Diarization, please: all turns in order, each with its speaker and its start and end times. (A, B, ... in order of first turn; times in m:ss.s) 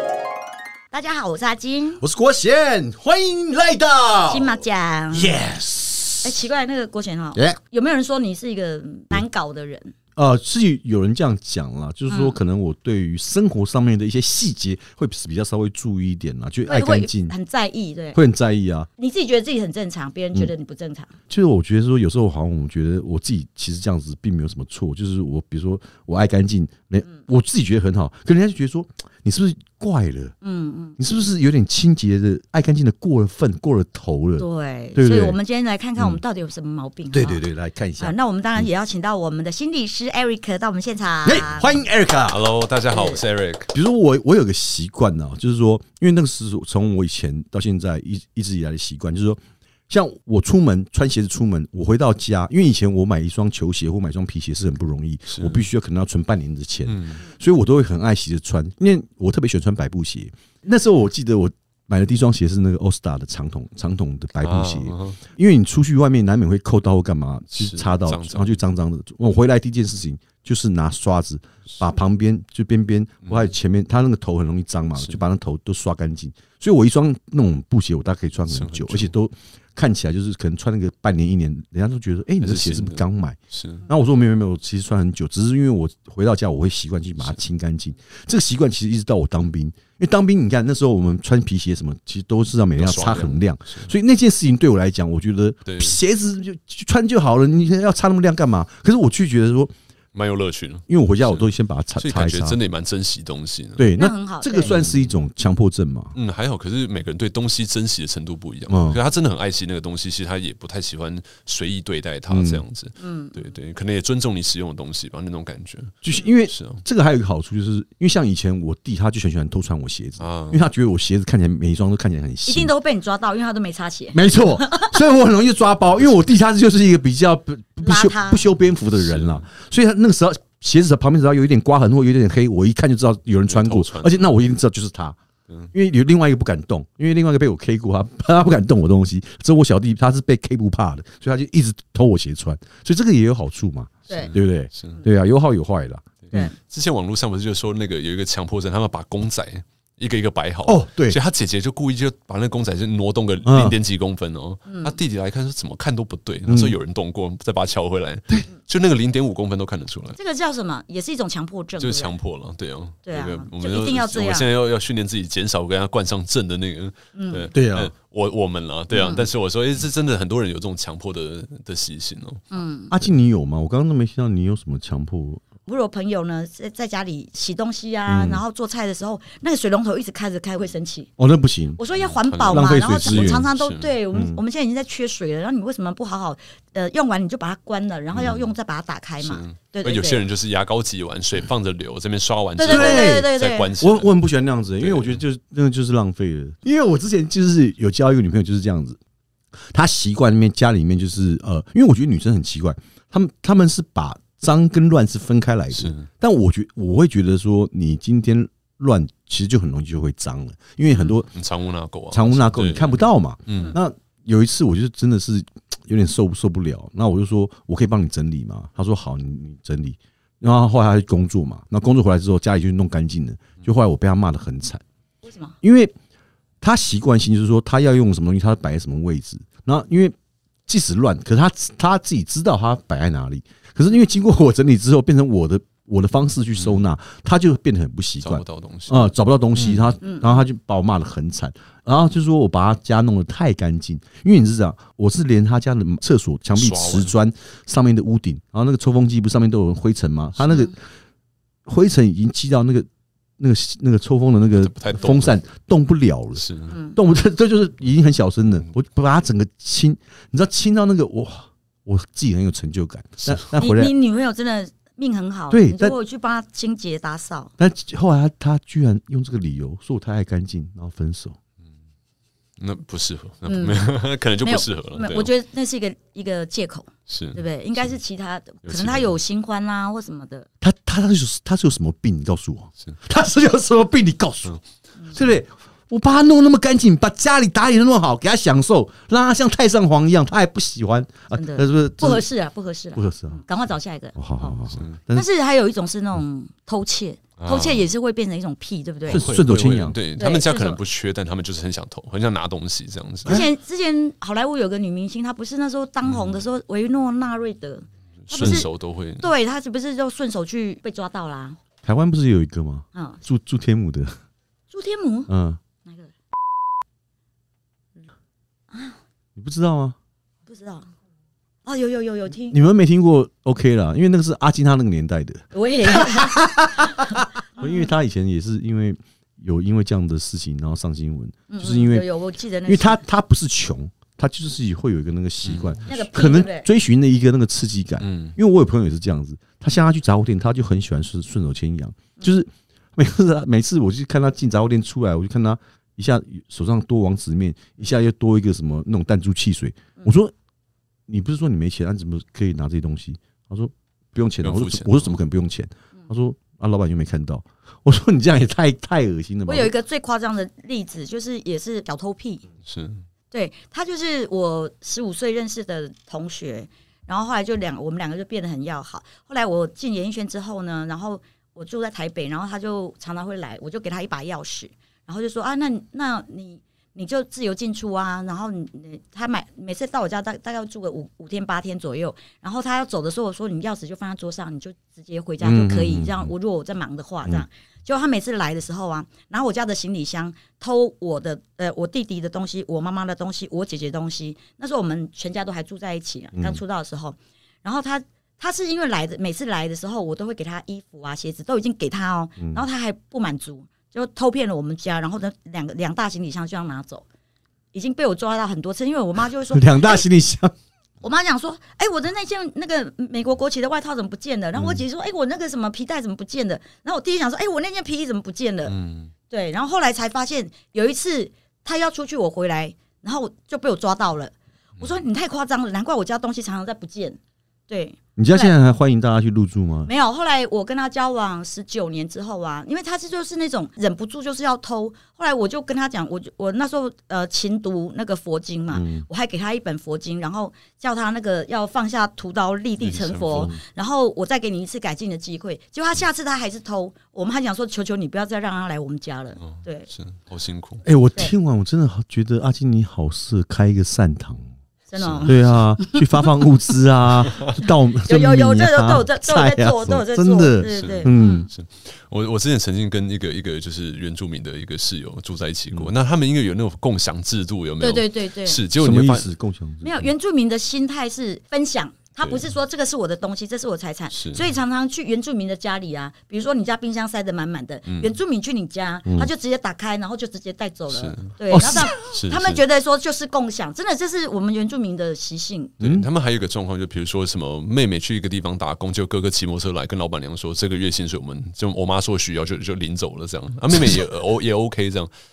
0:00.9-0:02.0 A
0:02.0-0:06.4 B
0:04.3-0:05.4 A
0:06.2-0:09.9 A
0:10.2-0:17.3 B
0:12.1-0:12.4 A
0:16.6-0:18.2 A
0:18.1-0:18.9 B
0:19.0-0:21.1 A
0:21.3-0:30.3 B
0:30.4-0:31.0 A
0:31.0-0:35.4 B
0:34.4-0:37.4 A
0:36.0-0:36.2 B
0:37.1-0:38.7 B
0:38.0-0:41.8 A
0:41.2-0:42.5 B
0:42.2-0:43.7 C
0:42.9-0:43.2 A
0:43.7-1:39.7 B
0:55.3-0:55.6 C
0:56.8-0:57.2 C
1:04.4-1:05.2 C
1:07.5-1:08.6 C
1:11.7-1:11.9 C
1:13.2-1:13.5 C
1:18.5-1:19.1 C
1:22.4-1:23.8 C
1:32.8-1:33.9 C
1:35.6-1:36.0 C
1:40.1-1:43.9 C
1:40.9-1:42.6 B
1:43.8-1:46.1 B
1:44.0-1:44.7 A
1:44.7-1:45.1 C
1:46.1-1:55.9 C
1:48.7-1:49.0 B
1:52.3-1:52.6 B
1:53.0-1:53.4 A
1:56.0-2:02.7 B
1:56.5-1:56.8 C
2:00.2-2:00.6 C
2:02.4-2:04.9 A
2:04.1-2:15.2 B
2:07.8-2:08.5 A
2:08.9-2:09.4 C
2:13.4-2:14.2 C
2:15.7-2:26.5 B
2:24.1-2:24.3 A
2:24.1-2:25.0 C
2:26.2-2:40.2 C
2:30.6-2:31.2 B
2:33.4-2:33.8 B
2:34.7-2:35.0 A
2:36.4-2:36.8 B
2:40.2-2:42.1 A
2:41.8-2:52.4 C
2:43.0-2:44.5 A
2:47.1-2:47.5 A
2:47.5-2:47.9 B
2:48.9-2:49.3 A
2:52.5-2:52.9 A
2:52.9-2:55.4 B
2:55.6-3:01.1 A
2:58.0-2:58.4 B
3:01.2-3:01.8 B
3:01.8-3:10.2 A
3:01.9-3:04.0 C
3:02.5-3:03.4 B
3:04.1-3:04.4 B
3:08.1-3:08.5 C
3:09.2-3:14.1 C
3:12.6-3:13.7 A
3:12.6-3:19.0 B
3:14.8-3:15.2 C
3:19.7-3:31.3 B
3:25.7-3:26.1 C
3:31.3-3:33.8 C
3:32.1-3:44.8 B
3:45.2-3:45.6 A
3:45.6-3:45.9 B
3:46.6-3:50.1 B
3:50.7-4:10.8 B
3:56.6-3:56.8 C
3:58.2-3:59.9 C
4:00.0-4:00.4 A
4:06.5-4:07.1 C
4:11.6-4:12.9 B
4:13.4-4:16.4 B
4:14.5-4:15.4 C
4:16.3-4:16.8 C
4:16.7-4:17.0 A
4:16.9-4:23.9 B
4:23.6-4:27.5 A
4:25.5-4:25.9 B
4:27.6-4:31.4 B
4:32.6-4:35.3 C
4:33.4-4:40.5 A
4:37.1-4:37.4 C
4:38.6-4:39.1 C
4:40.6-4:44.6 B
4:45.1-4:52.2 B
4:51.3-4:54.6 A
4:53.0-4:53.4 B
4:54.2-4:55.2 B
4:55.1-4:59.2 A
4:57.4-4:57.9 C
4:59.1-5:00.0 B
4:59.1-5:03.4 C
5:00.2-5:00.8 A
5:03.2-5:08.7 A
5:06.0-5:06.4 C
5:08.3-5:09.3 C
5:08.4-5:08.6 B
5:09.2-5:11.6 A
5:11.8-5:14.1 B
5:12.9-5:13.2 A
5:14.7-5:15.3 A
5:15.3-5:15.6 B
5:15.8-5:16.1 A
5:18.7-5:19.0 A
5:19.4-5:20.0 B
5:20.5-5:20.9 A
5:21.6-5:22.6 A
5:22.5-5:32.1 B
5:25.5-5:27.9 A
5:31.5-5:33.0 A
5:32.6-5:50.3 B
5:35.4-5:35.8 C
5:35.9-5:36.7 A
5:38.0-5:38.4 C
5:51.1-5:59.7 B
5:54.4-5:55.2 C
5:59.4-6:02.4 A
6:02.6-6:03.0 C
6:03.3-6:47.0 A
6:25.4-6:26.3 B
6:36.3-6:36.6 B
6:47.7-6:50.0 A
6:49.5-6:50.5 B
6:51.0-6:58.7 A
6:54.5-6:54.8 B
6:58.6-6:59.1 C
6:59.3-7:07.2 A
7:07.7-7:08.6 A
7:08.2-7:09.9 B
7:09.8-7:29.9 A
7:18.7-7:19.1 B
7:22.8-7:23.5 C
7:23.4-7:23.6 B
7:29.4-7:30.8 C
7:30.8-7:34.5 B
7:34.9-7:36.0 A
7:35.0-7:35.6 C
7:35.2-7:41.5 B
7:37.2-7:37.6 C
7:38.0-7:41.5 A
7:40.7-7:49.3 C
7:47.8-7:48.6 A
7:48.8-7:50.1 B
7:49.8-8:05.7 A
7:52.2-7:52.5 C
7:54.1-7:54.5 C
7:57.8-7:58.1 C
7:59.0-7:59.3 B
8:00.9-8:02.6 C
8:01.5-8:01.9 B
8:05.8-8:15.1 C
8:05.8-8:06.0 B